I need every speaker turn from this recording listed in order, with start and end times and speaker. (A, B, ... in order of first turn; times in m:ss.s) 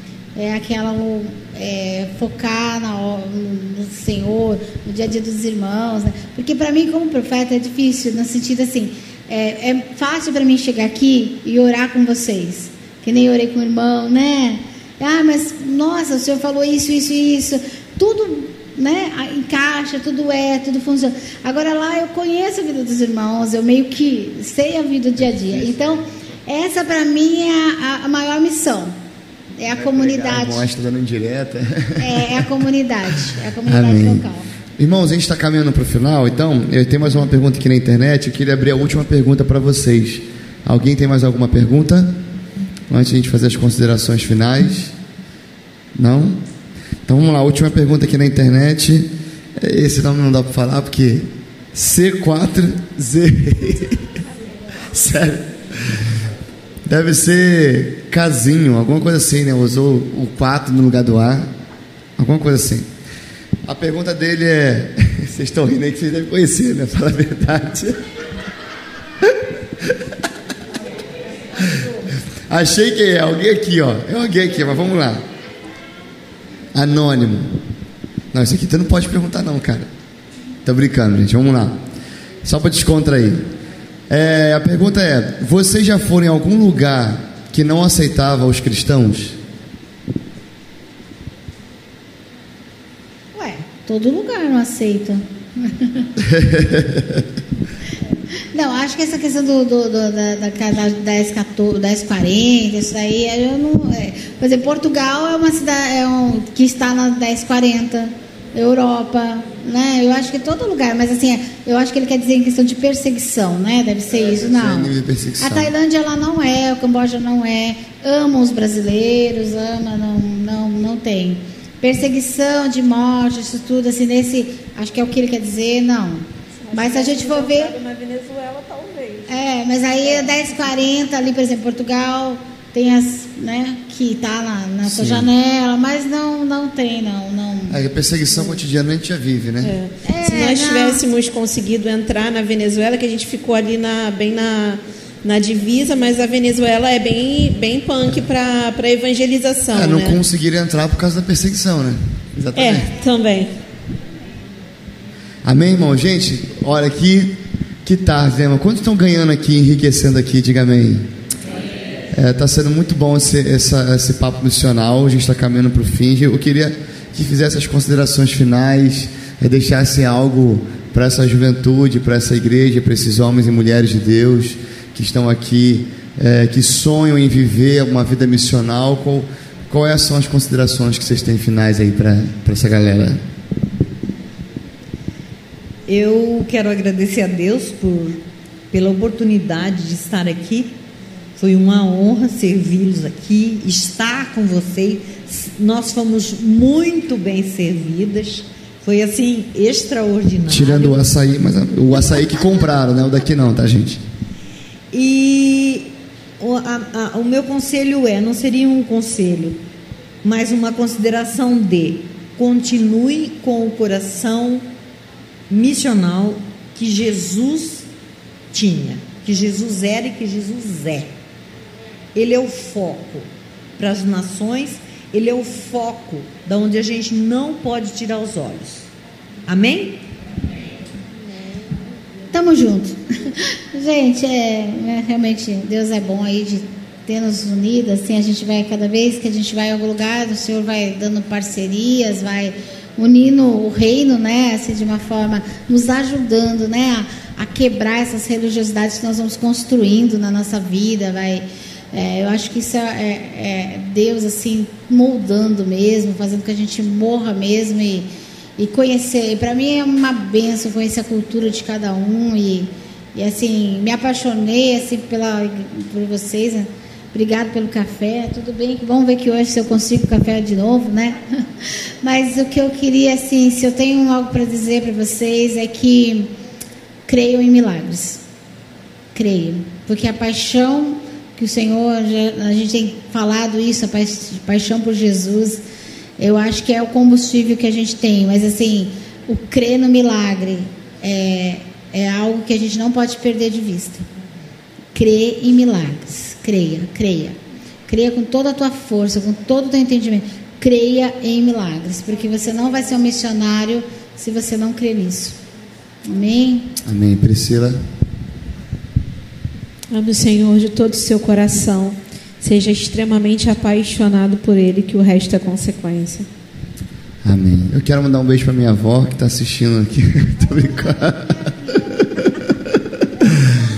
0:00.4-0:28.9 A
0:25.2-0:26.0 B
0:29.6-0:30.7 A
0:29.7-0:32.5 B
0:32.0-0:34.5 A
0:33.6-0:34.2 B
0:34.8-0:42.2 B
0:42.9-0:44.9 B
0:45.9-0:46.4 B
0:47.0-0:54.1 B
0:54.8-0:56.3 B
0:56.8-1:01.5 B
1:02.2-1:02.9 B
1:03.6-1:08.0 B
1:09.2-1:10.1 B
1:11.6-1:11.9 B
1:12.5-1:15.2 B
1:16.7-1:17.6 B
1:18.3-1:19.9 B
1:20.6-1:21.8 B
1:22.4-1:23.5 B
1:24.1-1:29.4 B
1:33.3-1:36.0 A
1:36.2-1:37.2 B
1:38.5-2:07.7 A
1:54.1-1:55.7 B
2:06.7-2:09.2 C
2:09.3-2:17.8 A
2:14.8-2:15.3 B
2:17.7-2:19.7 B
2:19.6-2:30.2 C
2:20.0-2:21.0 A
2:29.7-2:32.9 B
2:32.5-2:33.5 C
2:35.4-2:41.0 B
2:42.1-3:03.2 B
3:05.9-3:08.2 D
3:08.7-3:10.8 D
3:11.4-3:21.0 D
3:20.5-3:24.0 B
3:24.9-3:29.6 D
3:30.2-3:34.7 D
3:35.5-3:37.9 D
3:38.5-3:41.1 D
3:42.1-3:48.8 D
3:49.4-3:50.0 D
3:52.3-4:18.1 A
4:18.6-4:31.2 A
4:32.0-4:36.3 A
4:37.1-4:38.2 A
4:39.1-4:45.6 A
4:46.2-4:54.0 A
4:54.9-5:05.4 A
5:06.1-5:06.7 A
5:06.8-5:07.8 B
5:09.9-5:16.3 C
5:17.2-5:23.6 B